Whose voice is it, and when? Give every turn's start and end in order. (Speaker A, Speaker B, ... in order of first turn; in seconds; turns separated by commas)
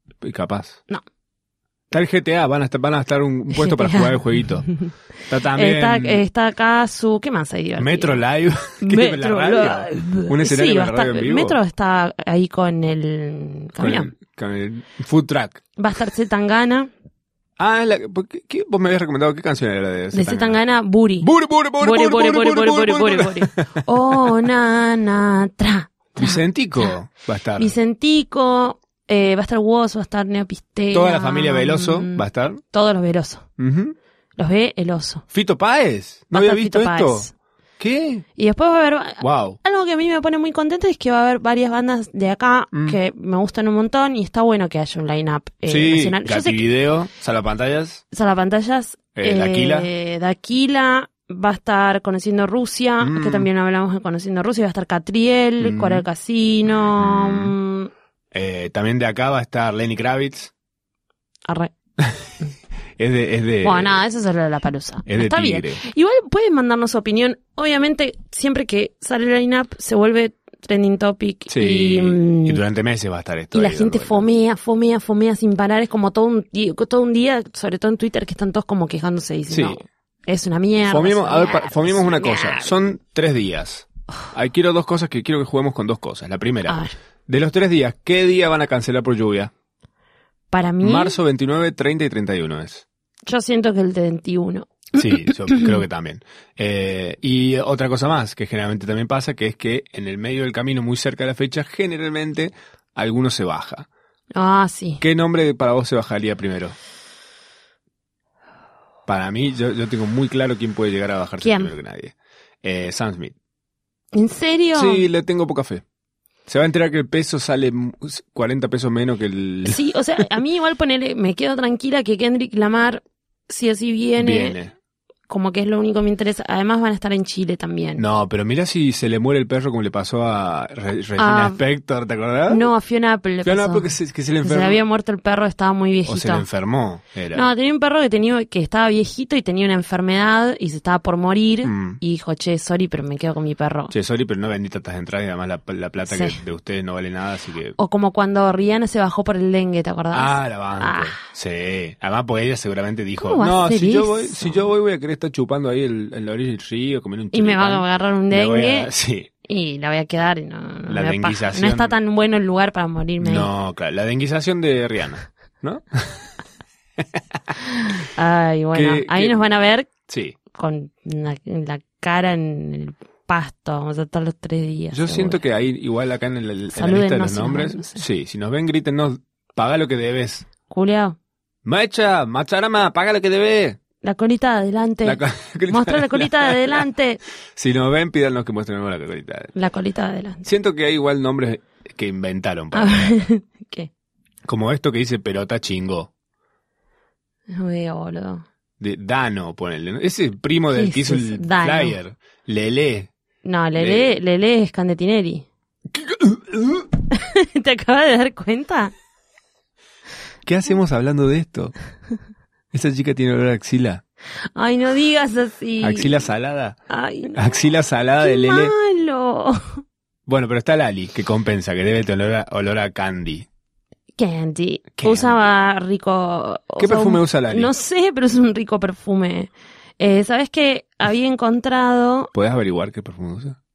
Speaker A: 0.2-0.8, Speaker A: 1.9-4.7, Speaker B: 3.5-4.9, Speaker A: 5.3-6.2, Speaker B: 5.4-8.2, Speaker A: 7.8-11.6, Speaker B: 8.8-14.1, Speaker A: 13.8-15.6, Speaker B: 15.8-16.9, Speaker A: 17.6-20.6, Speaker B: 20.1-26.9, Speaker A: 21.2-24.4, Speaker A: 26.2-27.7, Speaker B: 27.6-33.5, Speaker A: 30.9-32.6, Speaker A: 33.6-34.0, Speaker B: 34.4-35.2, Speaker A: 35.3-38.2, Speaker B: 36.3-37.3, Speaker B: 38.4-46.6, Speaker A: 39.2-39.6, Speaker A: 45.7-48.0, Speaker B: 48.1-57.9, Speaker A: 49.2-49.9, Speaker A: 53.0-53.5, Speaker A: 55.6-56.0, Speaker A: 57.0-57.5, Speaker A: 58.3-60.5, Speaker B: 61.5-61.7, Speaker A: 62.0-62.3, Speaker A: 63.0-64.0, Speaker B: 63.6-72.6, Speaker A: 65.1-65.8, Speaker A: 71.5-74.3, Speaker B: 73.5-82.7, Speaker A: 79.5-79.8, Speaker A: 80.8-89.5, Speaker B: 86.7-87.0, Speaker B: 90.5-91.2, Speaker A: 90.8-92.8, Speaker B: 93.3-95.8, Speaker A: 95.0-103.9, Speaker B: 104.3-105.0, Speaker A: 105.0-106.8, Speaker A: 109.1-113.4, Speaker B: 111.4-111.7, Speaker B: 114.1-115.0, Speaker A: 114.7-115.8, Speaker A: 116.5-119.8, Speaker B: 119.7-124.6, Speaker A: 124.2-124.7, Speaker B: 125.3-128.0, Speaker A: 128.0-132.7, Speaker B: 131.2-131.6, Speaker B: 132.5-136.5, Speaker A: 133.4-134.8, Speaker A: 136.1-137.5, Speaker B: 137.3-143.9, Speaker A: 141.6-142.0, Speaker A: 143.9-147.8, Speaker B: 146.1-146.4, Speaker B: 147.8-151.2, Speaker A: 150.1-159.3, Speaker B: 153.2-154.7, Speaker B: 157.3-158.9, Speaker B: 159.4-163.5, Speaker A: 160.9-161.9, Speaker A: 163.2-166.3, Speaker B: 167.6-169.9, Speaker A: 168.7-169.4, Speaker A: 170.1-170.4, Speaker B: 170.5-175.4, Speaker A: 174.9-180.5, Speaker B: 176.7-178.0, Speaker B: 180.7-181.2, Speaker A: 181.7-183.8, Speaker B: 184.0-187.2, Speaker A: 185.0-186.8, Speaker A: 187.6-189.5, Speaker B: 189.6-190.5, Speaker A: 190.4-193.2, Speaker B: 192.7-193.9, Speaker A: 194.5-196.1, Speaker B: 197.5-198.5, Speaker A: 198.8-203.1, Speaker B: 200.7-202.0, Speaker B: 203.4-205.5, Speaker A: 203.8-204.1, Speaker A: 205.9-206.9, Speaker B: 207.1-208.9, Speaker A: 210.4-211.7, Speaker A: 212.7-214.0, Speaker B: 214.6-216.3, Speaker A: 215.8-216.8, Speaker B: 216.9-217.6, Speaker A: 217.3-218.7, Speaker B: 218.2-219.8, Speaker A: 220.3-223.5, Speaker B: 224.2-232.3, Speaker A: 225.0-225.4, Speaker A: 226.8-227.7, Speaker A: 232.3-233.6